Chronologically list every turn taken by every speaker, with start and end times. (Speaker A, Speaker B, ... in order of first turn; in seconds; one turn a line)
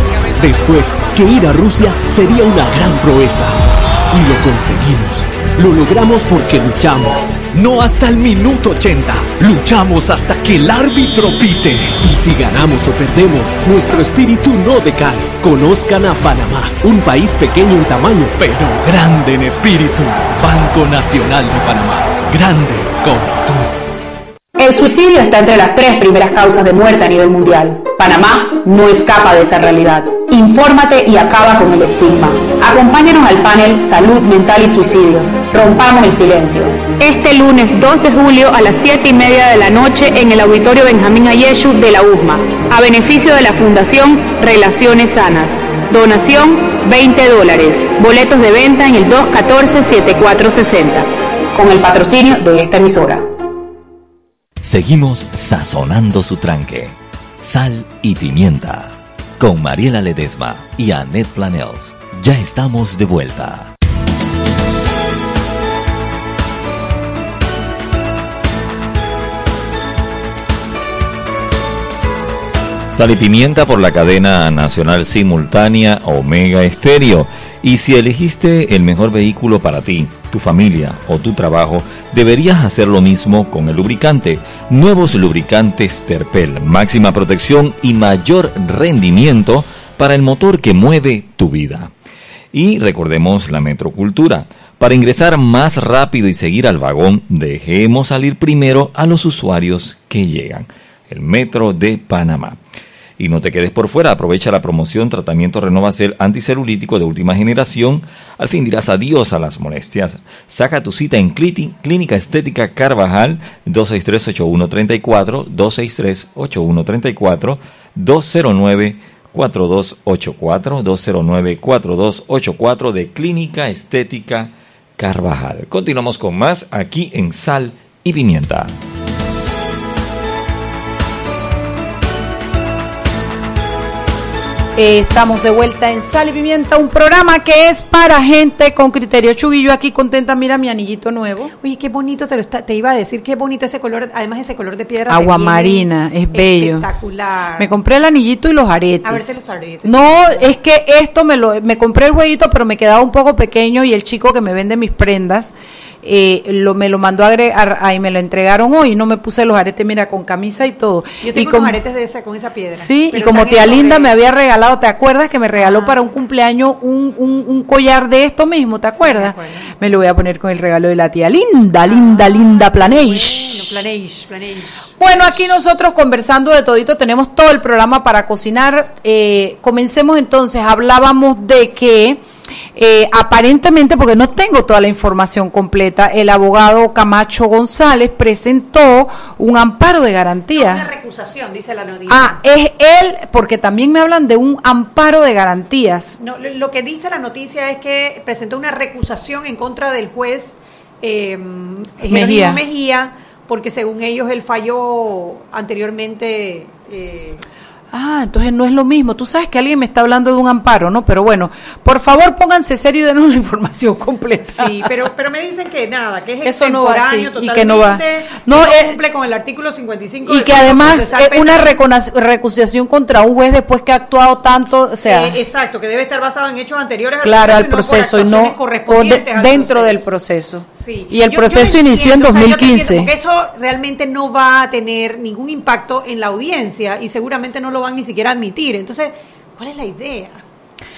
Speaker A: 0.3-3.6
Speaker A: 4.1-23.7
Speaker B: 24.6-53.2
Speaker C: 54.6-63.7
Speaker C: 72.9-91.9
Speaker C: 92.5-102.6
Speaker C: 103.2-128.7
Speaker D: 134.8-141.5
Speaker E: 141.6-147.7
Speaker D: 145.1-146.8
Speaker D: 147.6-161.8
Speaker E: 149.0-150.5
Speaker E: 161.2-164.1
Speaker D: 162.8-173.7
Speaker E: 165.6-166.1
Speaker E: 169.0-169.7
Speaker E: 171.9-175.4
Speaker D: 175.0-182.2
Speaker D: 182.8-190.9
Speaker E: 190.5-192.4
Speaker D: 192.1-196.1
Speaker E: 196.2-207.4
Speaker D: 202.1-202.6
Speaker D: 207.9-214.9
Speaker E: 214.5-221.7
Speaker D: 216.4-219.0
Speaker D: 220.2-225.4
Speaker E: 225.0-230.0
Speaker D: 227.2-233.1
Speaker E: 230.8-240.4